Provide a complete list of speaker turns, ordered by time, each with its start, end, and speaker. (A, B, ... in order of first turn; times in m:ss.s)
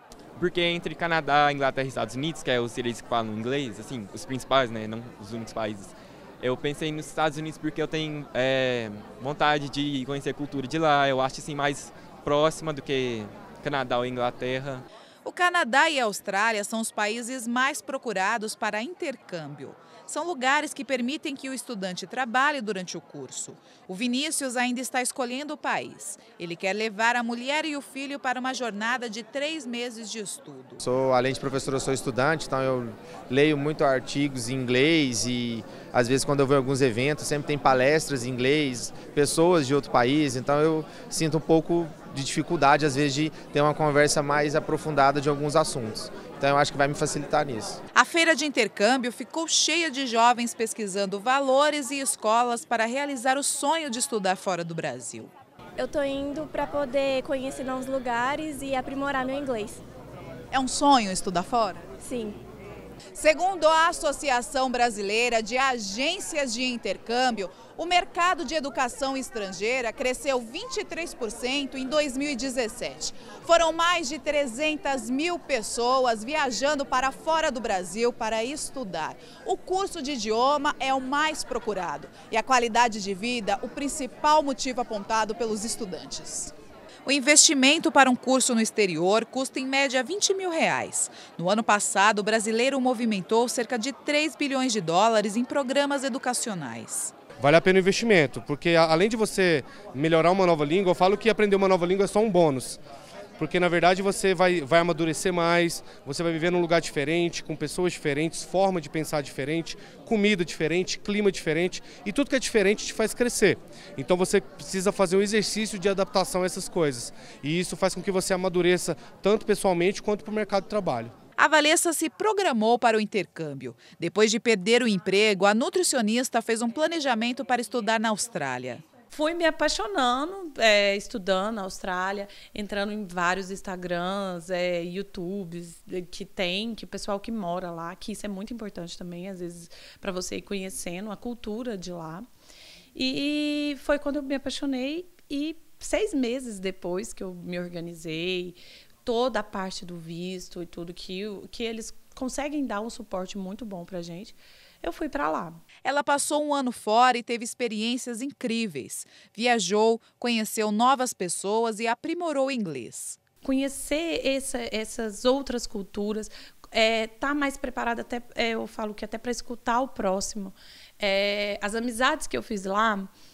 0:00.4-0:14.8 A
0:15.2-0:30.8 B
0:30.8-0:47.8 C
0:47.9-0:55.3 B
0:55.8-0:59.8 D
1:00.5-1:01.8 B
1:02.0-1:02.4 D
1:03.1-1:26.5 B
1:27.0-1:37.1 B
1:37.4-1:42.8 E
1:43.4-2:01.1 E
2:01.4-2:08.8 B
2:09.1-2:22.3 F
2:22.9-2:35.6 F
2:35.8-2:43.2 B
2:43.4-2:53.1 F